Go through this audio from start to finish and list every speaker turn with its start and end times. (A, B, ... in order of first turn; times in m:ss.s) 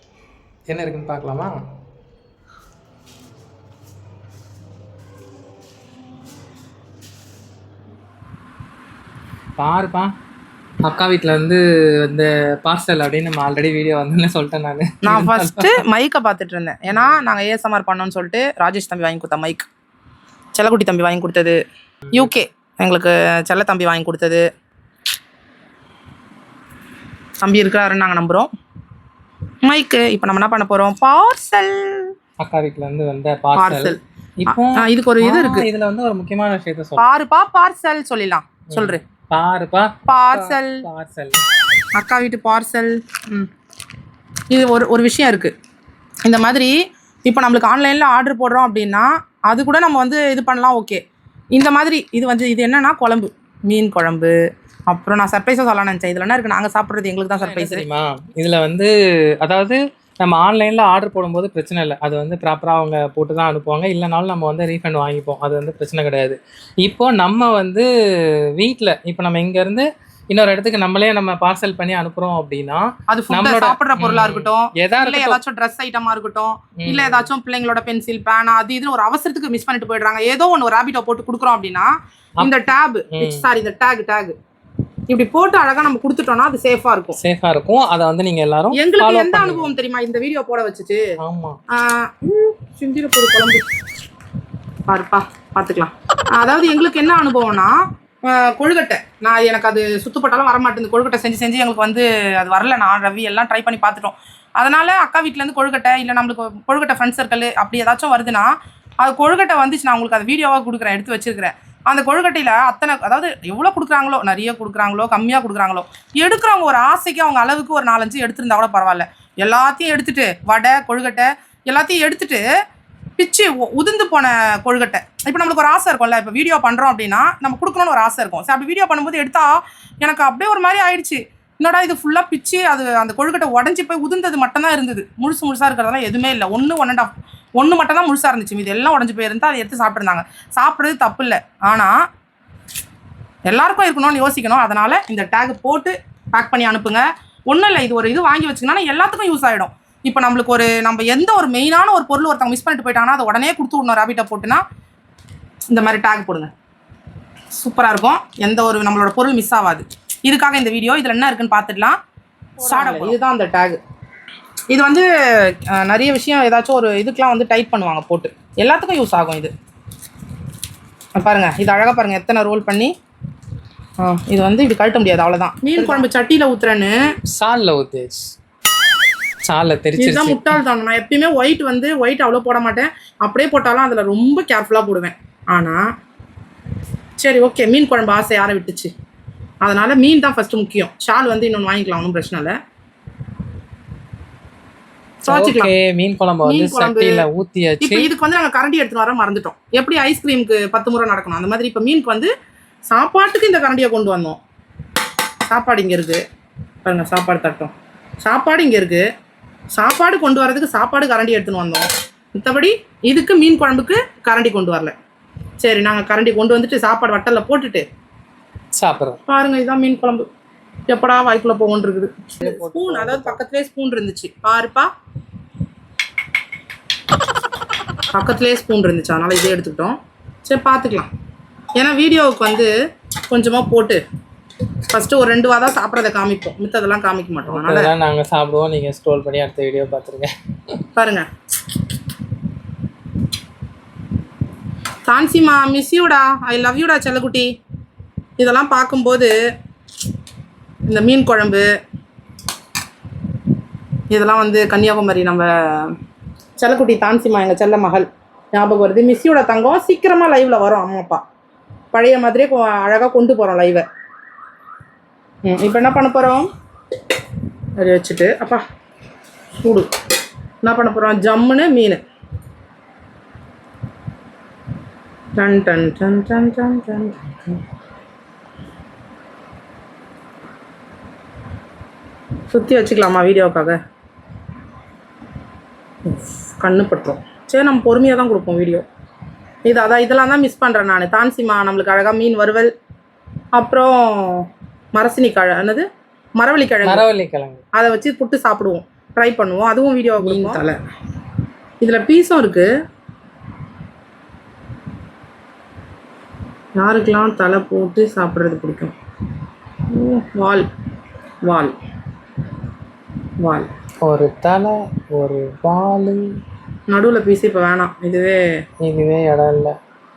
0:00.7-0:01.5 A
0:09.6-0:10.1 A
0:10.8-0:15.8 A
0:15.0-0:19.7 B
0:20.6-0:21.6 B
0:22.1-0:24.5 B
0:27.4-0:28.5 B
0:29.6-0:32.1 B
0:32.4-0:37.1 A
0:33.6-0:35.7 B
0:37.0-0:39.0 B
0:38.7-0:41.4 A
0:40.1-0:40.8 B
0:42.0-0:43.5 B
0:44.5-0:45.5 B
0:46.2-0:51.0 B
0:51.5-0:54.4 B
0:54.9-0:57.8 B
0:57.4-1:07.9 A
1:08.6-1:15.4 A
1:13.1-1:24.4 B
1:16.8-1:17.3 A
1:23.1-1:23.5 A
1:25.1-1:27.2 B
1:27.2-1:29.7 A
1:28.7-1:31.0 B
1:31.2-1:31.6 A
1:31.7-1:33.6 B
1:34.9-1:37.8 B
1:38.3-2:02.4 B
2:03.2-2:21.9 B
2:23.5-2:34.6 B
2:35.7-2:36.5 B
2:37.6-2:42.0 B
2:42.6-2:43.8 B
2:44.7-2:49.5 B
2:51.2-2:52.9 B
2:54.0-2:57.0 B
2:57.3-2:58.3 A
2:59.4-3:00.6 A
3:00.0-3:05.8 B
3:07.2-3:08.9 B
3:09.6-3:12.6 B
3:15.2-3:15.7 B
3:15.3-3:18.1 A
3:16.4-3:17.2 B
3:17.8-3:22.3 B
3:22.9-3:24.4 B
3:25.5-3:26.2 B
3:26.8-3:29.0 B
3:29.8-3:34.9 B
3:35.6-3:37.8 B
3:38.8-3:39.2 A
3:39.3-3:40.3 B
3:40.9-3:44.9 B
3:42.4-3:43.4 A
3:48.1-3:51.1 B
3:51.8-3:52.7 B
3:53.3-3:54.0 B
3:54.9-3:57.9 B
3:57.5-4:00.8 A
4:01.0-4:01.3 B
4:05.1-4:07.5 B
4:08.4-4:09.3 B
4:10.9-4:11.7 B
4:14.1-4:15.9 B
4:16.6-4:21.2 B
4:21.9-4:23.9 B
4:25.4-4:26.5 B
4:27.8-4:28.6 B
4:29.6-4:29.9 B
4:30.6-4:32.0 B
4:35.4-4:37.6 B
4:42.5-4:43.8 B
4:46.1-4:48.8 B
4:49.6-4:52.7 B
4:53.6-4:55.9 B
4:56.4-4:57.1 B
4:56.8-4:57.6 A
4:57.7-5:00.8 B
5:00.2-5:00.6 A
5:01.8-5:02.7 B
5:06.8-5:08.9 B
5:09.9-5:10.7 B
5:11.4-5:11.7 B
5:13.4-5:13.7 B
5:14.0-5:16.4 A
5:16.9-5:18.4 B
5:18.8-5:19.8 A